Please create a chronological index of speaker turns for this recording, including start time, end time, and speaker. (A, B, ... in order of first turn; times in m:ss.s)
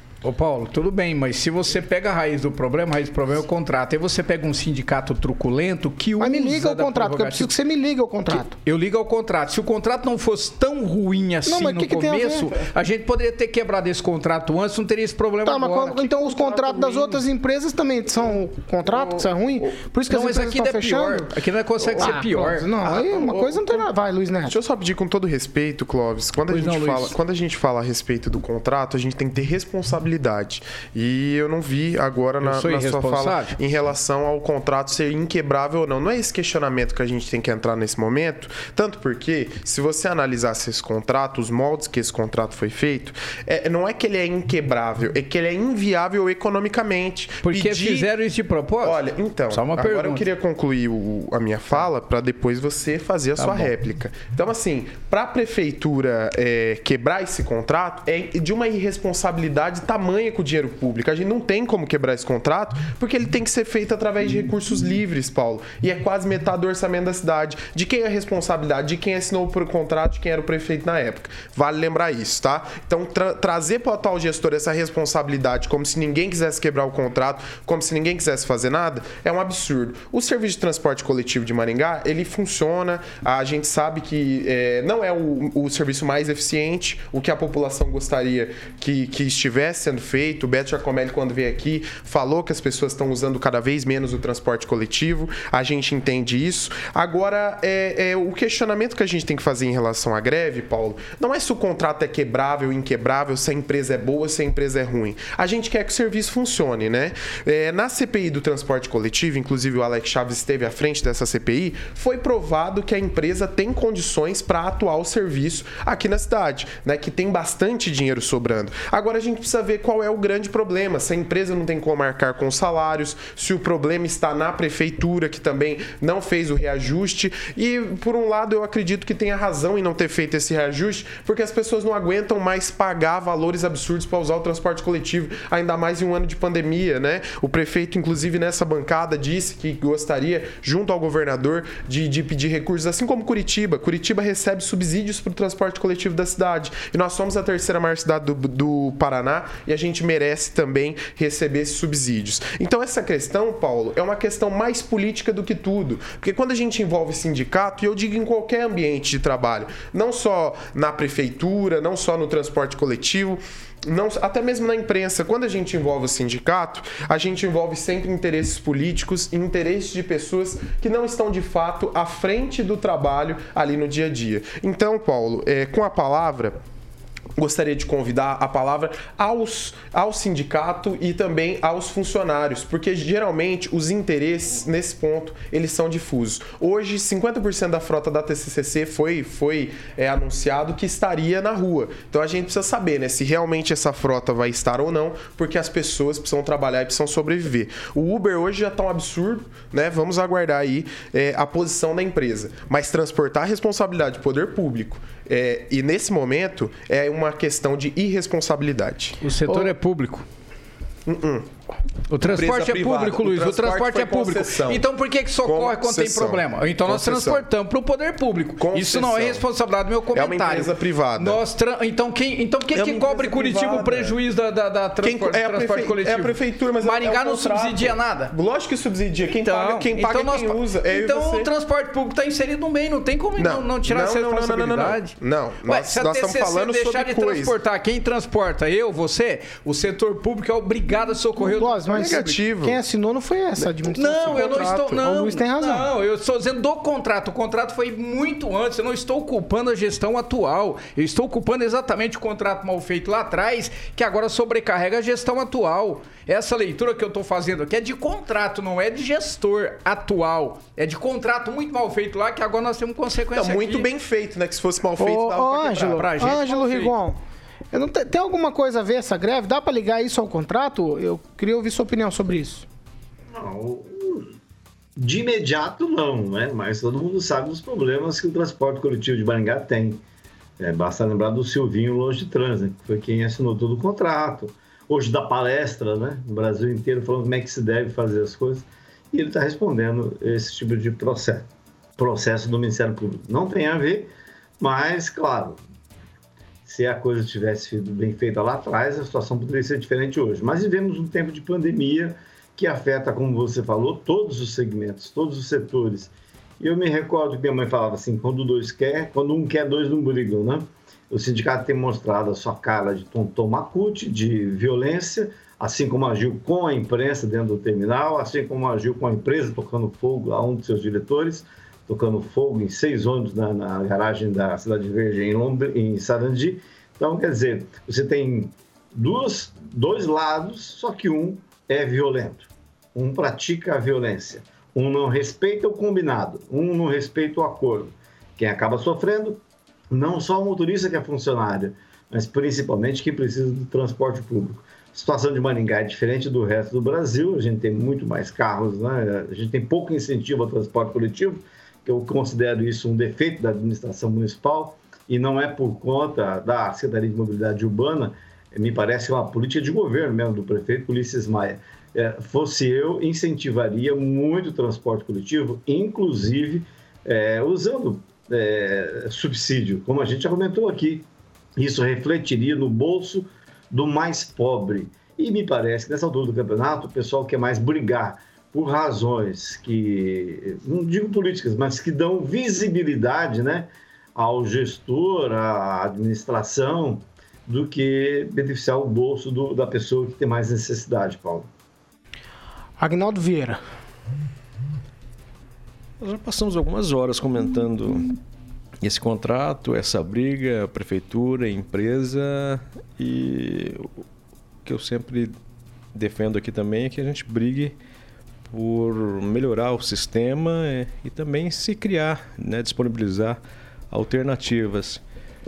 0:00.2-0:07.5 A
0:06.2-0:08.6 B
0:08.3-0:17.2 A
0:11.4-0:12.5 B
0:15.4-0:21.3 B
0:18.8-0:19.3 C
0:20.1-0:22.7 A
0:21.9-0:24.6 B
0:22.8-0:23.9 C
0:24.5-0:48.1 C
0:26.5-0:27.1 A
0:32.4-0:33.6 A
0:47.4-0:50.2 A
0:48.8-2:56.6 C
0:53.4-0:53.7 A
2:57.4-3:29.7 C
3:29.2-3:30.2 A
3:31.1-3:31.5 C
3:32.1-3:48.3 A
3:32.2-3:34.8 C
3:35.4-3:37.5 C
3:38.6-3:39.4 C
3:40.1-3:41.4 C
3:42.7-3:44.2 C
3:45.0-3:51.5 C
3:49.4-4:01.8 A
3:53.4-3:57.5 C
4:01.5-4:05.9 B
4:01.9-4:02.8 C
4:03.9-4:23.9 A
4:04.0-4:05.0 C
4:23.3-4:26.1 C
4:25.0-4:27.2 B
4:25.9-4:26.9 A
4:27.7-4:32.6 B
4:33.3-4:34.3 D
4:35.0-4:40.0 D
4:40.6-4:55.6 D
4:56.6-6:31.5 D
6:32.8-6:33.6 B
6:36.0-6:38.1 E
6:38.8-6:44.0 E
6:44.6-6:45.3 E
6:45.9-6:47.8 E
6:48.5-6:53.4 E
6:53.9-6:55.0 E